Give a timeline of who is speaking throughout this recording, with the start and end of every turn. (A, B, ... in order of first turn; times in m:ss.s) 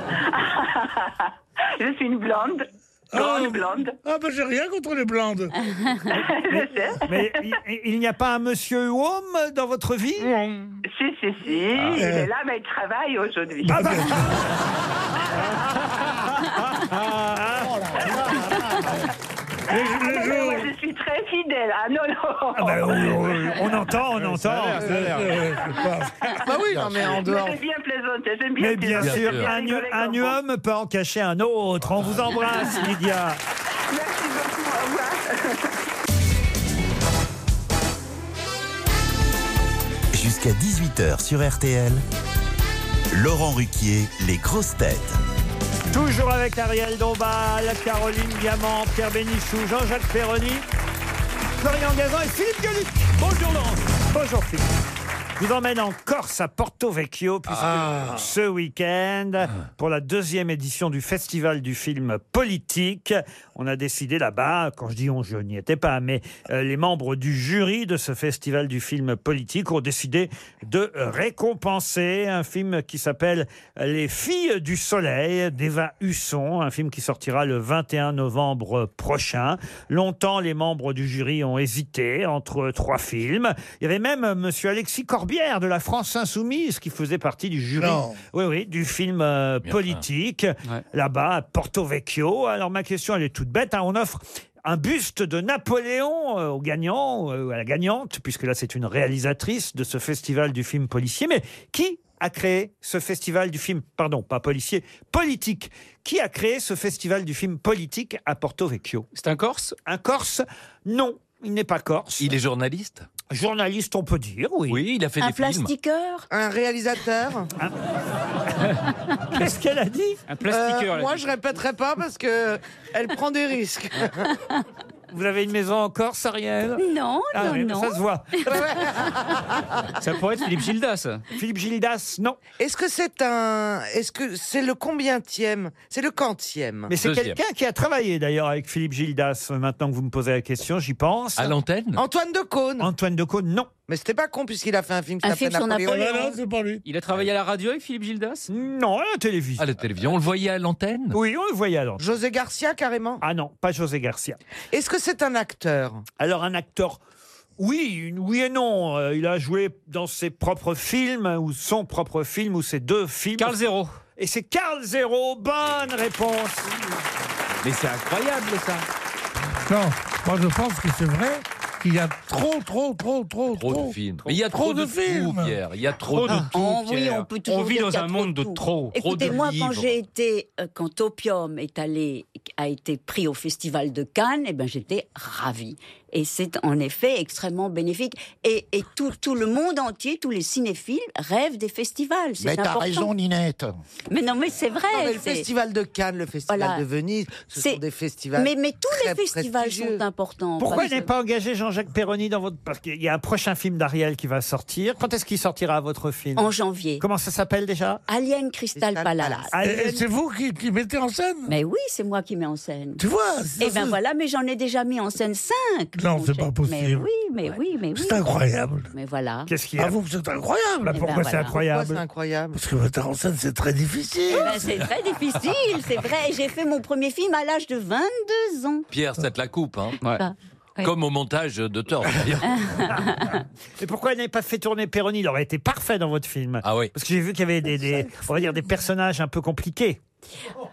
0:00.3-0:04.0 A
0:03.1-0:05.5 B
0:06.1-0:07.5 A
0:06.1-0:10.4 C
0:10.8-0:13.9 A
0:11.9-0:12.3 B
0:13.6-0:14.3 B
0:13.7-0:14.4 C
0:16.7-0:18.4 C
0:17.7-0:18.9 D
0:18.6-0:19.1 A
0:19.7-0:20.7 B
0:19.7-0:23.8 A
0:22.5-0:25.0 C
0:24.2-0:25.5 E
0:24.8-0:26.3 B
0:26.4-0:27.6 F
0:26.7-0:27.2 D
0:27.0-0:30.4 A
0:28.6-0:33.4 C
0:29.0-0:29.5 G
0:33.9-0:35.8 A
0:40.1-0:42.0 H
0:43.1-0:45.2 H
0:45.9-0:50.6 C
0:51.6-0:54.7 C
0:55.4-1:49.0 C
0:57.6-0:58.3 B
1:27.8-1:28.2 B
1:29.6-1:30.0 G
1:49.1-1:49.8 E
1:49.8-1:52.3 C
1:52.2-1:53.1 G
1:53.3-1:54.8 C
1:54.7-1:55.7 G
1:55.2-1:56.3 I
1:56.3-1:57.5 F
1:59.3-2:00.2 C
2:00.3-2:01.2 E
2:00.4-2:04.3 F
2:05.1-2:08.4 C
2:06.8-2:08.0 I
2:08.4-2:09.7 F
2:10.0-2:11.2 E
2:11.3-2:12.4 C
2:12.6-2:16.9 F
2:16.9-2:21.5 C
2:17.0-2:17.4 G
2:21.4-2:22.0 G
2:22.0-2:22.9 F
2:22.8-2:23.7 C
2:23.9-2:26.3 F
2:25.2-2:26.4 I
2:25.9-2:26.8 B
2:26.8-2:28.5 E
2:28.5-2:29.6 C
2:29.6-2:31.2 G
2:31.1-2:32.0 C
2:32.0-2:33.2 F
2:33.2-2:34.4 C
2:34.7-2:36.0 F
2:36.2-2:37.0 C
2:37.6-2:43.6 C
2:43.4-2:44.0 E
2:44.2-2:46.7 C
2:47.6-2:48.9 G
2:49.6-2:55.6 B
2:53.5-2:56.5 G
2:56.0-2:59.0 E
2:56.4-3:13.1 I
2:58.9-3:00.0 G
3:12.4-3:13.8 D
3:14.1-3:15.5 I
3:14.9-3:20.0 F
3:16.5-3:16.8 I
3:17.5-3:17.8 I
3:18.4-3:21.1 I
3:20.6-3:26.5 C
3:26.4-3:27.0 I
3:27.0-3:28.0 C
3:28.1-3:29.5 I
3:28.7-3:29.5 F
3:29.5-3:30.0 C
3:29.6-3:31.5 B
3:31.5-3:33.0 I
3:33.0-3:34.0 B
3:33.6-3:38.3 I
3:35.9-3:37.1 B
3:37.9-3:38.9 B
3:38.9-3:39.5 I
3:39.5-3:40.0 C
3:39.8-3:41.1 B
3:40.9-3:41.6 I
3:40.9-3:42.0 C
3:41.5-3:42.6 F
3:42.5-3:44.8 B
3:44.3-3:48.8 I
3:48.9-3:50.0 G
3:50.1-3:50.9 I
3:50.8-3:52.8 G
3:52.4-3:53.4 I
3:53.8-4:00.0 C
3:56.6-3:56.9 G